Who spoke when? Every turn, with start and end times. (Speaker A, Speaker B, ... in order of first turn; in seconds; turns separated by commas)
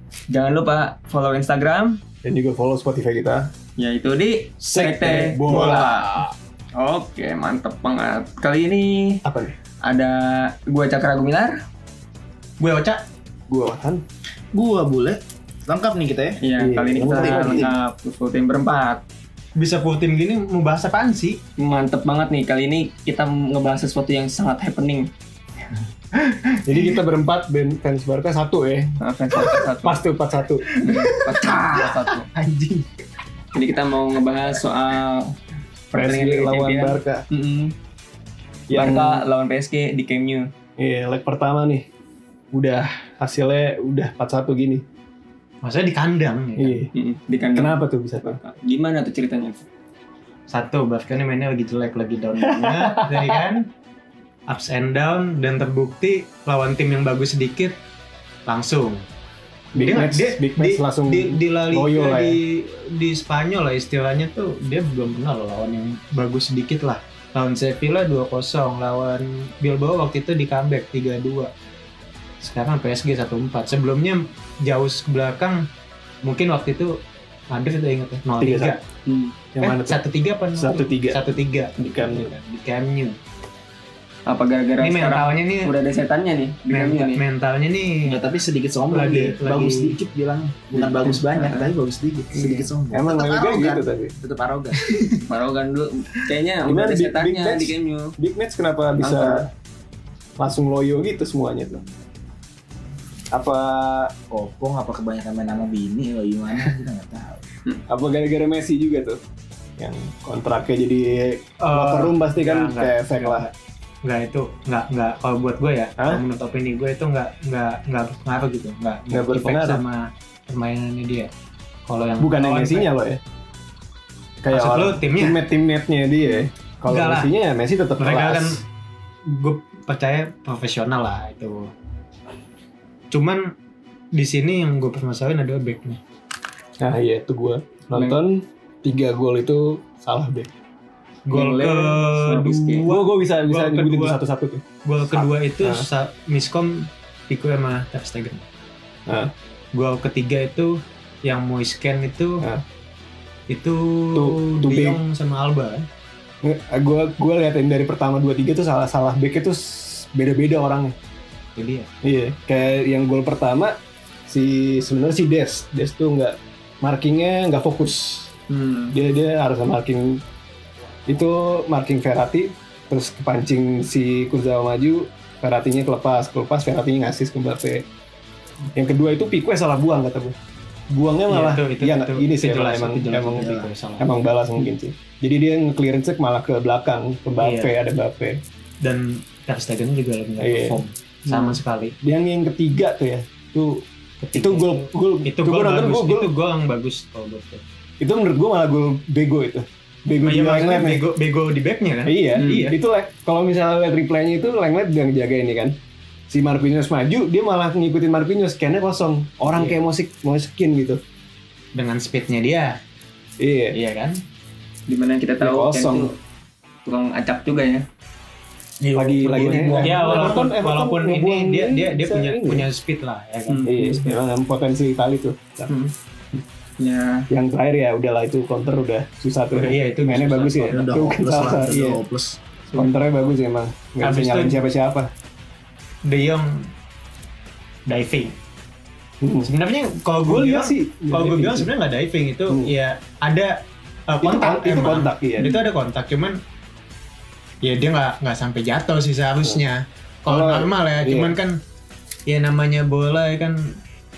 Speaker A: 0.3-2.0, Speaker B: 2.2-3.5, Speaker A: 3.8-9.2, Speaker B: 4.7-6.0, Speaker B: 9.2-9.6, Speaker A: 9.8-11.5, Speaker C: 12.6-13.0, Speaker B: 13.5-14.0, Speaker D: 14.5-16.4, Speaker A: 16.4-19.0, Speaker B: 16.6-17.7, Speaker D: 17.0-17.7, Speaker C: 19.6-21.4, Speaker A: 21.6-25.1, Speaker B: 26.6-28.9, Speaker C: 26.7-26.9, Speaker A: 29.0-30.0, Speaker B: 29.8-30.6, Speaker C: 30.6-32.9, Speaker A: 30.8-32.3, Speaker A: 33.5-35.4, Speaker A: 35.9-37.7, Speaker B: 35.9-37.2, Speaker B: 38.7-39.2, Speaker A: 38.7-40.5, Speaker B: 40.8-41.9, Speaker B: 42.5-44.8, Speaker C: 45.6-46.8, Speaker B: 46.6-46.9, Speaker A: 46.9-49.6, Speaker B: 47.5-48.4, Speaker C: 50.5-53.6, Speaker B: 52.4-53.4, Speaker C: 54.5-57.8, Speaker C: 58.5-59.0, Speaker B: 59.7-62.4, Speaker C: 59.8-71.5, Speaker C: 72.4-75.6, Speaker C: 76.2-77.0, Speaker C: 77.5-78.8, Speaker B: 78.4-78.8, Speaker A: 79.1-79.3, Speaker B: 79.5-80.0, Speaker C: 79.6-83.2, Speaker B: 80.5-81.2, Speaker B: 81.8-82.3, Speaker A: 84.2-87.2, Speaker C: 84.8-85.7, Speaker C: 86.7-88.2, Speaker D: 88.0-95.2, Speaker C: 88.9-90.0, Speaker A: 90.7-91.7, Speaker B: 92.9-94.1, Speaker A: 95.3-98.1, Speaker B: 96.7-99.5, Speaker A: 99.0-99.5, Speaker B: 100.4-101.8, Speaker B: 103.3-104.1, Speaker D: 104.3-107.4, Speaker B: 107.9-109.2, Speaker B: 109.8-113.5, Speaker C: 111.6-113.5, Speaker C: 114.0-121.3, Speaker B: 116.0-116.2, Speaker B: 119.1-119.8, Speaker C: 121.8-122.9, Speaker B: 122.2-123.2, Speaker B: 124.4-128.6, Speaker C: 124.5-125.4, Speaker C: 126.8-127.3, Speaker C: 128.0-128.6, Speaker C: 129.2-131.7, Speaker C: 133.1-133.4, Speaker C: 134.1-136.0, Speaker B: 136.8-140.5, Speaker A: 137.9-138.2, Speaker C: 141.3-144.2, Speaker A: 141.3-142.9, Speaker B: 142.8-145.9, Speaker C: 144.8-148.4, Speaker B: 149.1-149.3, Speaker C: 149.7-152.4, Speaker C: 153.5-155.8, Speaker B: 154.1-155.0, Speaker B: 156.4-160.9, Speaker C: 161.6-161.9, Speaker B: 162.0-163.7, Speaker B: 164.3-168.3, Speaker A: 168.5-168.9, Speaker B: 168.9-170.2, Speaker B: 171.1-177.8, Speaker B: 178.7-180.3, Speaker B: 180.9-188.4, Speaker C: 181.3-184.2, Speaker C: 187.4-187.8, Speaker C: 188.8-191.9, Speaker B: 190.4-196.3, Speaker C: 194.2-197.6, Speaker B: 198.0-201.0, Speaker C: 200.2-202.5, Speaker B: 202.1-205.8, Speaker A: 202.4-202.7, Speaker B: 206.3-211.0, Speaker C: 211.7-212.8, Speaker B: 213.4-213.8, Speaker C: 213.7-214.2, Speaker A: 214.9-216.2, Speaker B: 215.4-216.1, Speaker A: 216.8-217.8, Speaker D: 218.8-220.4, Speaker B: 218.9-222.7, Speaker C: 219.8-224.1, Speaker A: 223.5-224.1, Speaker B: 223.7-225.7, Speaker A: 226.8-227.3, Speaker B: 227.3-232.0, Speaker C: 229.5-230.8, Speaker D: 230.7-232.4, Speaker B: 232.7-235.1, Speaker C: 234.0-234.6, Speaker C: 236.0-236.7, Speaker C: 237.9-238.3, Speaker B: 239.2-239.5, Speaker C: 239.4-246.4, Speaker B: 240.2-241.7, Speaker B: 242.5-242.7, Speaker B: 244.2-245.6, Speaker C: 247.6-251.6, Speaker B: 250.3-251.3, Speaker C: 252.2-253.8